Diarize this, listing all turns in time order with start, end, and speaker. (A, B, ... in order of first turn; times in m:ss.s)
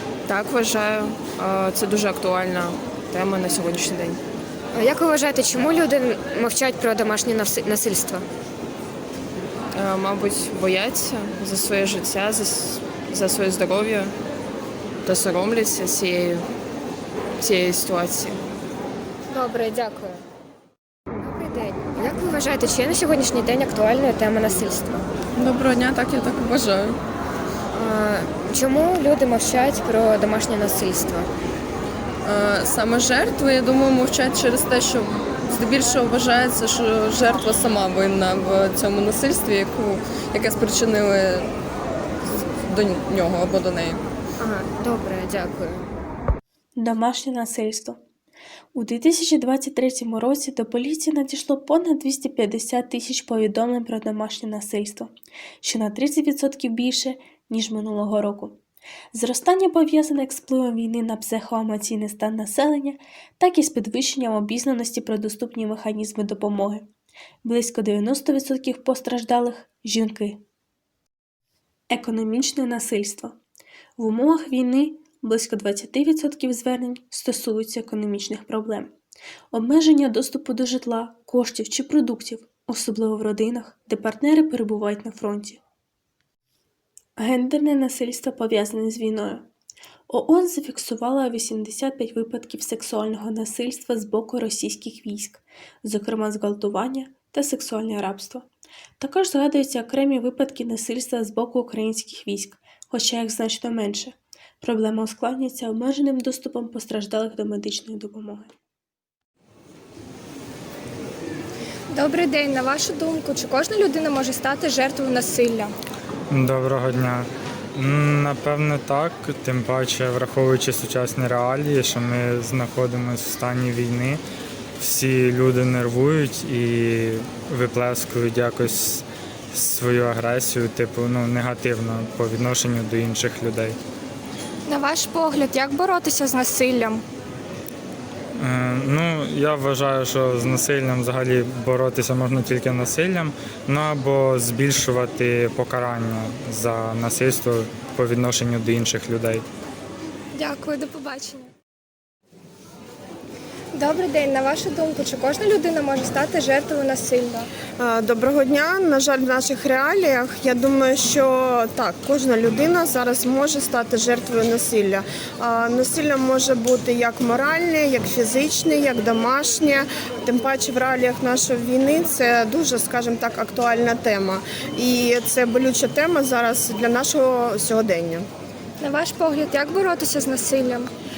0:00.3-0:04.2 A
0:04.7-0:08.2 B
0:09.7-0:14.1 A
0:15.0-0:16.5 A
0:17.4-0:18.4 A
0:19.3-0:20.2 B
0:21.2-0:25.0 B
0:25.3-0:27.0 C
0:27.7-0:31.3 B
0:32.2-0:41.5 C
0:42.2-0:44.0 C
0:44.4-0:45.9 B
0:46.8-0:48.0 D
0:48.7-0:58.6 D
0:59.1-1:06.9 D
1:07.4-1:10.4 D
1:11.9-1:13.4 D
1:14.0-1:18.9 D
1:19.5-1:25.6 D
1:27.2-1:29.5 D
1:30.1-1:38.5 D
1:39.0-1:48.5 D
1:51.9-1:55.7 E
1:56.3-2:04.2 F
2:04.8-2:13.8 F
2:14.7-2:17.0 E
2:18.4-2:29.4 F
2:30.3-2:31.5 E
2:33.7-2:37.5 E
2:37.8-2:58.3 G
2:58.8-3:00.9 E